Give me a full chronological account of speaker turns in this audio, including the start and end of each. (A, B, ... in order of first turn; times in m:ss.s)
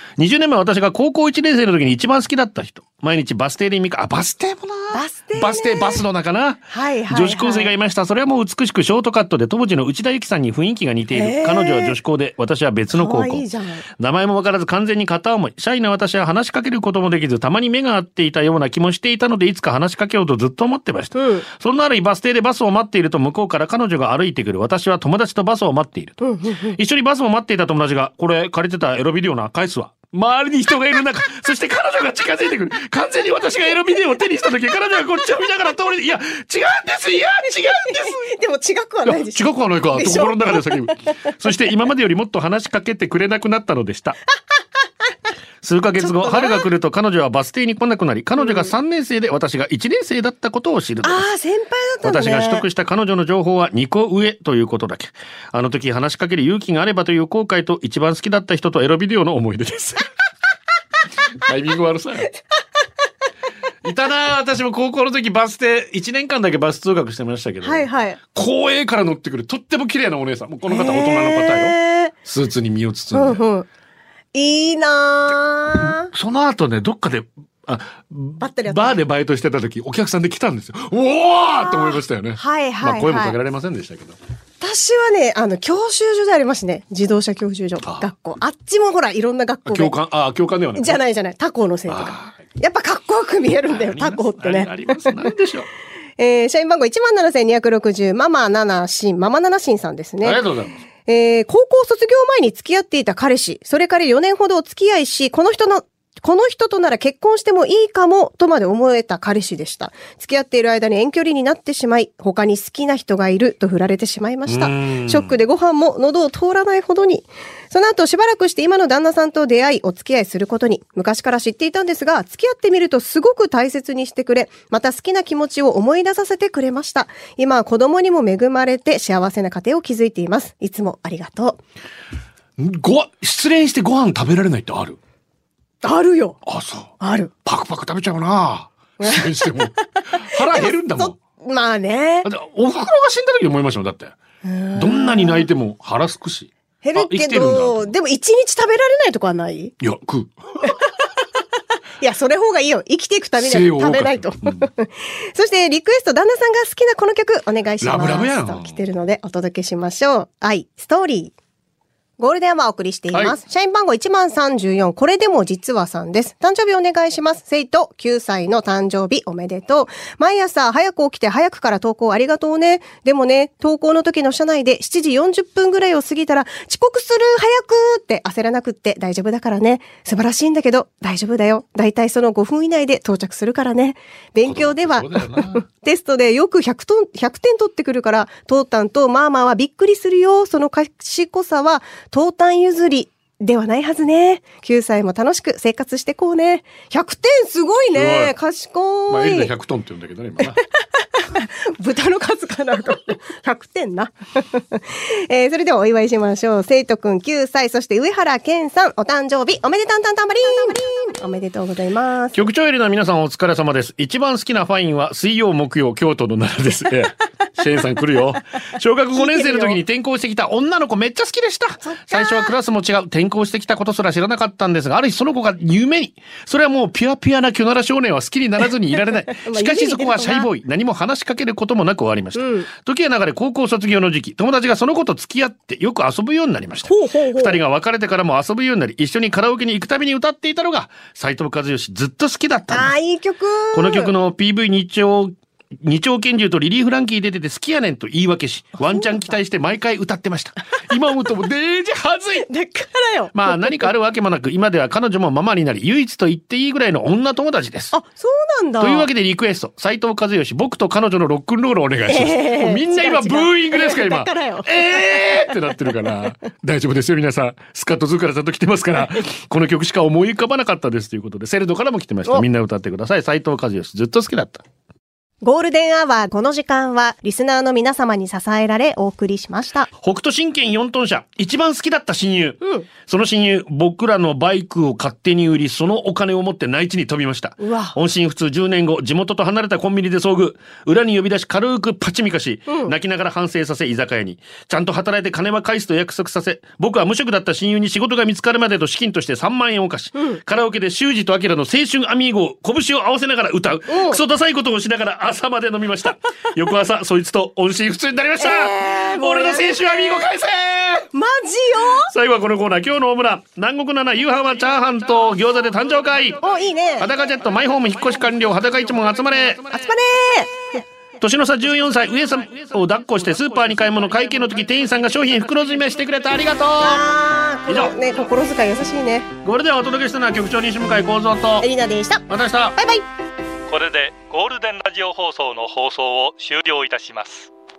0:00.2-0:38.3 A
0:04.9-0:06.0 B
0:06.7-0:07.7 B
0:11.1-0:12.0 B
0:12.9-0:13.8 B
0:21.1-0:21.4 B
0:26.2-0:26.8 B
0:37.9-0:40.9 B
0:39.0-0:44.2 A
0:45.6-0:51.3 A
0:46.0-0:46.6 B
0:48.4-0:48.7 B
0:51.0-0:52.6 B
0:52.0-1:00.0 A
1:01.3-1:02.3 A
1:03.8-1:13.4 A
1:07.6-1:08.2 B
1:10.7-1:12.1 B
1:13.1-1:13.7 B
1:14.3-1:16.1 B
1:15.7-1:24.2 A
1:18.4-1:19.0 B
1:21.6-1:23.4 B
1:24.6-1:29.9 B
1:27.8-1:28.1 A
1:29.6-1:31.0 A
1:30.8-1:35.3 B
1:31.9-1:32.3 A
1:33.7-1:35.7 A
1:36.2-1:40.4 B
1:40.2-1:40.7 A
1:41.0-2:11.6 B
1:54.4-1:55.4 A
2:12.6-2:15.0 A
2:15.8-2:16.4 B
2:16.4-2:21.2 A
2:17.0-2:17.3 B
2:19.0-2:19.5 B
2:20.1-2:22.3 B
2:22.2-2:24.2 A
2:24.4-2:25.5 B
2:24.7-2:27.9 A
2:26.8-2:29.7 B
2:29.8-2:30.8 A
2:32.0-2:41.3 B
2:33.4-2:34.7 A
2:37.8-2:38.8 A
2:42.2-3:19.5 B
3:04.4-3:05.6 A
3:17.9-3:18.3 A
3:19.1-3:20.6 A
3:21.1-3:32.4 B
3:32.3-4:02.9 A
3:39.1-3:39.8 B
3:41.8-3:42.5 B
3:49.3-3:50.5 B
3:52.4-3:52.7 B
3:56.9-3:57.6 B
4:02.7-4:04.1 B
4:03.7-4:12.5 A
4:08.8-4:09.2 B
4:12.4-4:13.8 B
4:13.3-4:17.9 A
4:17.9-4:19.1 B
4:18.8-4:34.6 A
4:22.1-4:25.5 B
4:35.4-4:39.9 B
4:40.0-5:11.1 A
4:42.6-4:42.9 B
4:47.6-4:48.0 B
4:52.7-4:52.9 B
5:00.2-5:00.4 B
5:03.9-5:04.2 B
5:08.4-5:10.2 B
5:11.1-5:12.1 B
5:12.0-5:16.4 A
5:16.4-5:17.1 B
5:17.0-5:19.8 A
5:19.7-5:20.8 B
5:21.2-5:27.1 A
5:26.8-5:29.3 B
5:27.7-5:28.0 A
5:29.4-5:31.7 A
5:31.6-5:32.2 B
5:32.3-5:32.8 A
5:32.8-5:33.0 B
5:33.7-5:37.5 C